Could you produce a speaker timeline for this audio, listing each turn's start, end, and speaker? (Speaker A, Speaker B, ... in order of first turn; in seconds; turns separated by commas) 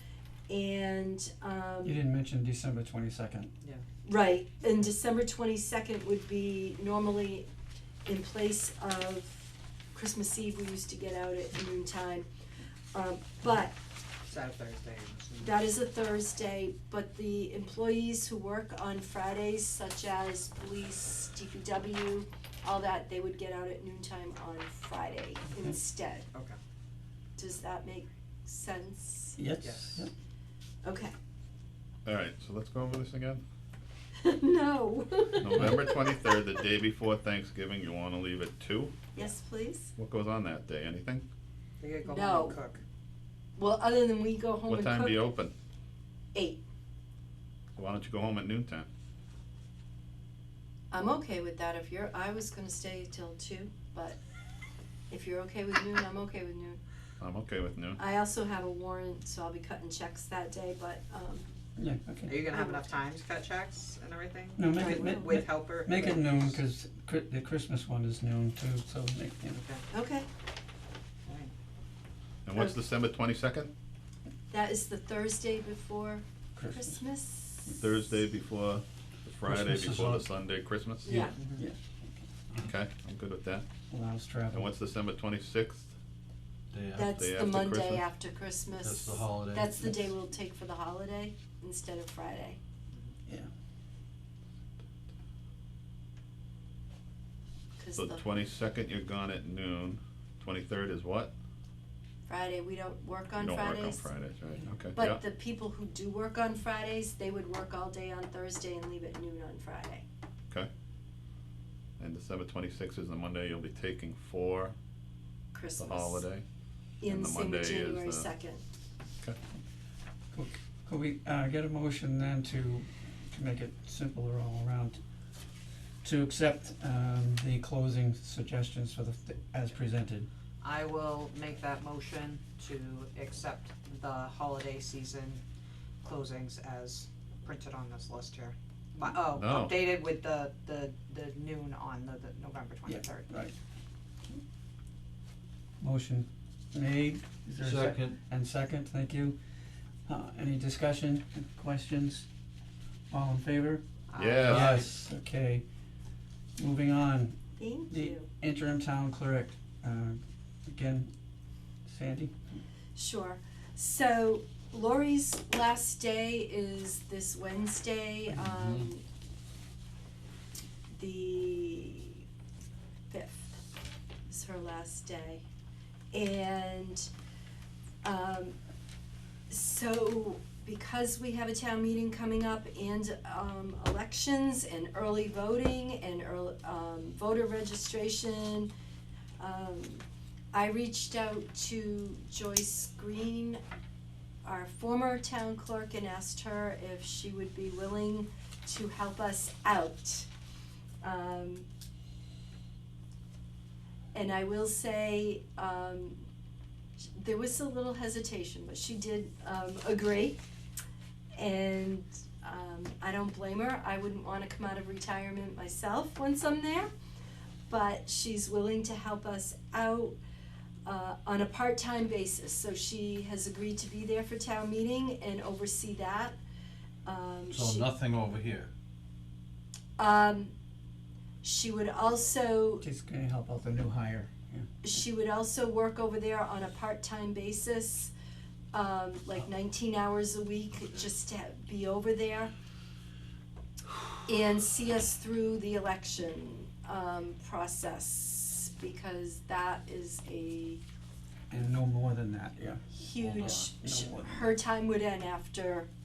Speaker A: 0.5-2.0, Speaker B: 1.8-3.5, Speaker A: 4.0-7.5, Speaker A: 8.1-12.3, Speaker A: 12.9-13.8, Speaker C: 14.2-15.6, Speaker A: 15.4-26.3, Speaker A: 27.4-29.4, Speaker B: 29.4-30.1, Speaker C: 29.6-30.1, Speaker A: 30.8-31.1, Speaker D: 32.0-33.4, Speaker A: 34.2-36.0, Speaker D: 35.4-38.9, Speaker A: 39.1-39.9, Speaker D: 40.0-41.2, Speaker C: 41.8-42.8, Speaker A: 42.0-42.6, Speaker A: 43.6-45.2, Speaker D: 44.7-45.5, Speaker A: 46.3-46.6, Speaker D: 47.8-48.9, Speaker A: 50.9-54.2, Speaker A: 55.1-56.8, Speaker D: 57.2-58.0, Speaker A: 58.0-61.6, Speaker B: 61.8-62.4, Speaker C: 62.3-66.6, Speaker A: 62.5-62.9, Speaker B: 64.6-69.6, Speaker A: 64.8-65.4, Speaker A: 69.9-70.3, Speaker C: 71.3-71.5, Speaker D: 72.5-73.7, Speaker A: 74.5-77.8, Speaker B: 76.6-77.0, Speaker D: 77.8-81.3, Speaker E: 79.5-80.3, Speaker A: 81.0-81.4, Speaker C: 81.3-81.6, Speaker D: 82.6-83.7, Speaker B: 83.9-84.7, Speaker D: 84.5-85.9, Speaker E: 86.7-87.2, Speaker A: 87.0-92.6, Speaker D: 87.1-88.1, Speaker E: 88.8-89.8, Speaker A: 97.8-98.2, Speaker D: 98.0-101.3, Speaker A: 102.3-104.1, Speaker D: 103.4-105.2, Speaker A: 105.0-110.0, Speaker D: 112.0-114.8, Speaker A: 115.5-116.2, Speaker D: 115.8-116.4, Speaker A: 117.0-118.6, Speaker D: 117.1-118.3, Speaker B: 120.3-125.0, Speaker B: 126.0-130.3, Speaker C: 130.6-135.4, Speaker C: 136.0-143.3, Speaker D: 139.3-139.8, Speaker B: 142.9-143.5, Speaker B: 145.8-149.4, Speaker E: 147.6-148.2, Speaker B: 150.1-152.3, Speaker B: 153.1-153.8, Speaker C: 154.1-154.6, Speaker D: 154.2-154.8, Speaker B: 154.5-155.6, Speaker E: 154.5-154.9, Speaker B: 156.6-157.4, Speaker A: 157.6-158.3, Speaker B: 157.9-161.1, Speaker B: 161.9-162.4, Speaker A: 162.9-169.1, Speaker A: 170.9-172.2, Speaker A: 173.1-173.6, Speaker A: 174.3-175.4, Speaker A: 176.1-177.1, Speaker A: 178.0-178.6, Speaker A: 179.5-188.7, Speaker A: 189.4-193.6, Speaker A: 194.4-200.3, Speaker A: 201.0-201.7, Speaker A: 204.1-206.3, Speaker A: 207.2-210.4, Speaker A: 211.4-216.9, Speaker A: 217.7-220.2, Speaker A: 220.8-226.4, Speaker A: 227.1-227.9, Speaker E: 227.5-228.7, Speaker A: 230.0-230.5, Speaker A: 231.4-232.8, Speaker B: 232.8-234.7, Speaker A: 234.8-238.1, Speaker A: 238.7-242.5, Speaker A: 244.3-250.8, Speaker B: 251.5-252.9, Speaker A: 252.9-255.9, Speaker E: 253.2-253.7, Speaker B: 253.8-254.5